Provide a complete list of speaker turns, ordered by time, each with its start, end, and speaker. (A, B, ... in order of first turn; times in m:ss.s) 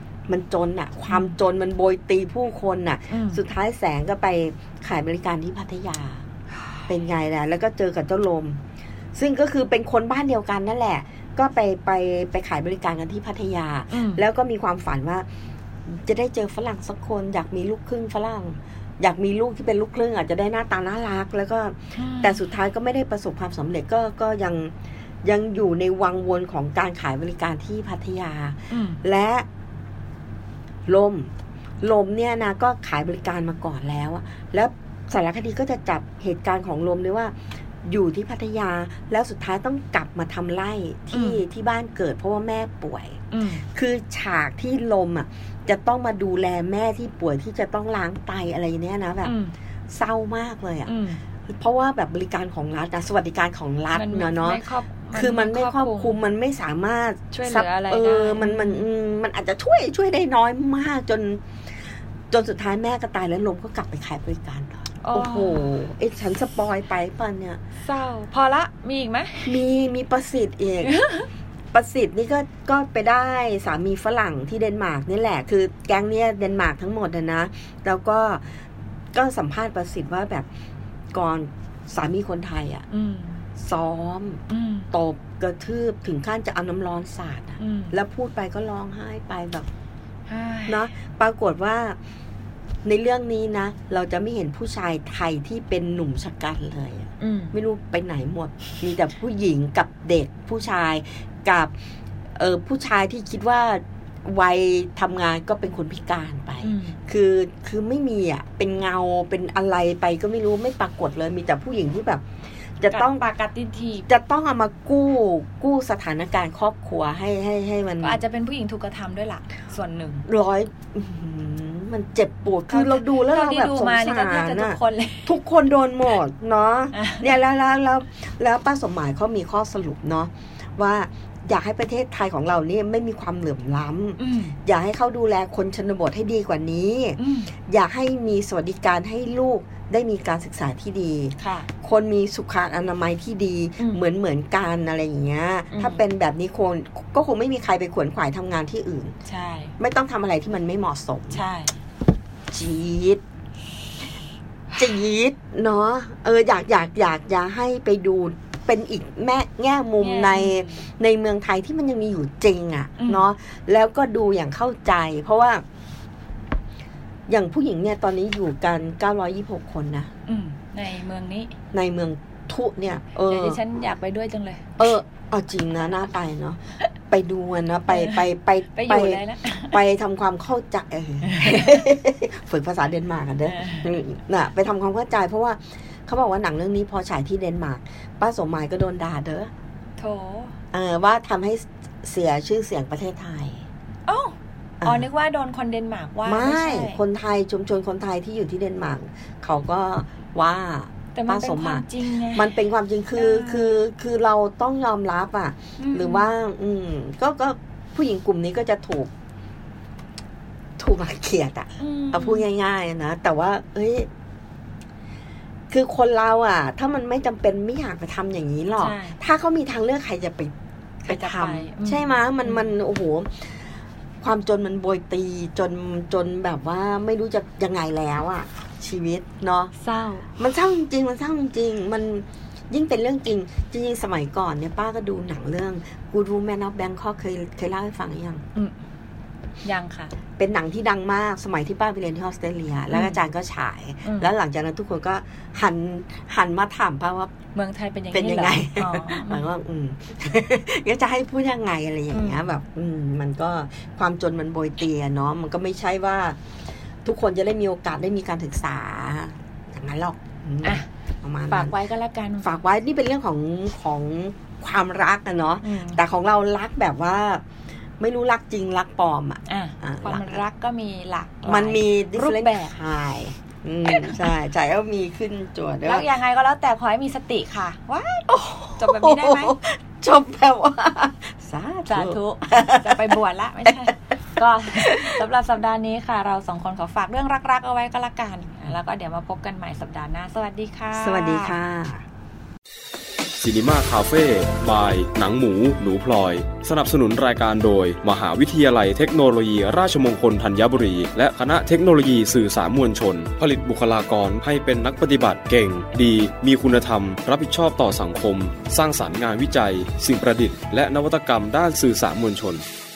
0:00.3-0:06.2 A
0:01.1-0:01.4 B
0:03.1-0:03.4 B
0:06.9-0:08.6 A
0:09.2-0:15.3 A
0:13.9-0:14.2 B
0:15.9-0:24.7 A
0:22.0-0:22.4 B
0:25.2-0:29.5 A
0:28.7-0:29.0 B
0:30.9-0:31.3 A
0:31.8-0:37.3 A
0:37.8-0:43.2 A
0:41.1-0:41.4 B
0:43.3-0:43.7 B
0:43.7-0:49.4 A
0:49.2-0:49.6 B
0:49.9-0:50.9 A
0:50.9-0:51.2 B
0:51.5-0:54.6 A
0:53.9-0:56.2 B
0:55.1-1:01.4 A
0:57.3-0:58.8 B
1:02.3-1:07.6 A
1:05.0-1:05.8 B
1:07.8-1:09.6 B
1:09.4-1:11.0 A
1:10.8-1:11.3 B
1:11.7-1:18.4 A
1:19.1-1:20.5 A
1:21.1-1:22.8 A
1:22.9-1:23.4 B
1:23.6-1:29.7 A
1:24.5-1:24.9 B
1:27.6-1:28.0 B
1:30.3-1:30.9 B
1:30.7-1:32.0 A
1:32.8-1:41.7 A
1:37.2-1:37.6 B
1:42.4-1:52.2 A
1:46.6-1:47.0 B
1:52.8-1:53.2 A
1:52.9-1:54.1 B
1:54.1-1:58.2 A
1:58.0-2:00.3 B
2:00.3-2:29.2 A
2:02.7-2:05.4 B
2:06.9-2:07.3 B
2:14.2-2:14.6 B
2:17.2-2:17.5 B
2:21.4-2:21.7 B
2:25.7-2:26.0 B
2:29.3-2:29.8 B
2:29.8-2:31.4 A
2:31.3-2:31.8 B
2:32.5-2:33.2 A
2:34.8-2:45.6 A
2:40.0-2:40.9 B
2:43.0-2:43.3 B
2:47.3-2:50.1 A
2:50.3-2:51.5 B
2:51.7-2:53.6 A
2:53.2-2:54.9 B
2:54.8-2:56.6 A
2:57.1-3:09.5 A
2:57.9-2:59.8 B
3:01.3-3:01.8 B
3:03.5-3:04.0 B
3:10.0-3:10.5 B
3:10.7-3:13.6 A
3:14.1-3:17.0 B
3:16.2-3:29.1 A
3:21.2-3:22.5 B
3:23.2-3:23.8 B
3:25.8-3:26.3 B
3:30.8-3:34.1 A
3:31.8-3:32.5 B
3:35.7-3:40.5 A
3:38.8-3:39.2 B
3:41.1-3:43.5 A
3:41.1-3:42.8 B
3:44.2-3:49.7 A
3:49.8-3:50.3 B
3:50.4-3:58.4 A
3:59.6-4:00.2 B
4:00.4-4:07.3 A
4:02.9-4:03.2 B
4:04.0-4:04.3 B
4:07.5-4:09.5 B
4:08.1-4:16.4 A
4:12.1-4:12.5 B
4:17.0-4:21.8 A
4:21.5-4:22.5 B
4:22.4-4:27.4 A
4:25.6-4:26.0 B
4:28.0-4:30.4 A
4:29.5-4:32.7 B
4:31.4-4:36.1 A
4:33.9-4:34.3 B
4:35.8-4:39.6 B
4:38.3-4:43.9 A
4:41.9-4:51.6 B
4:44.8-4:45.2 A
4:50.9-4:52.0 A
4:53.4-5:12.6 C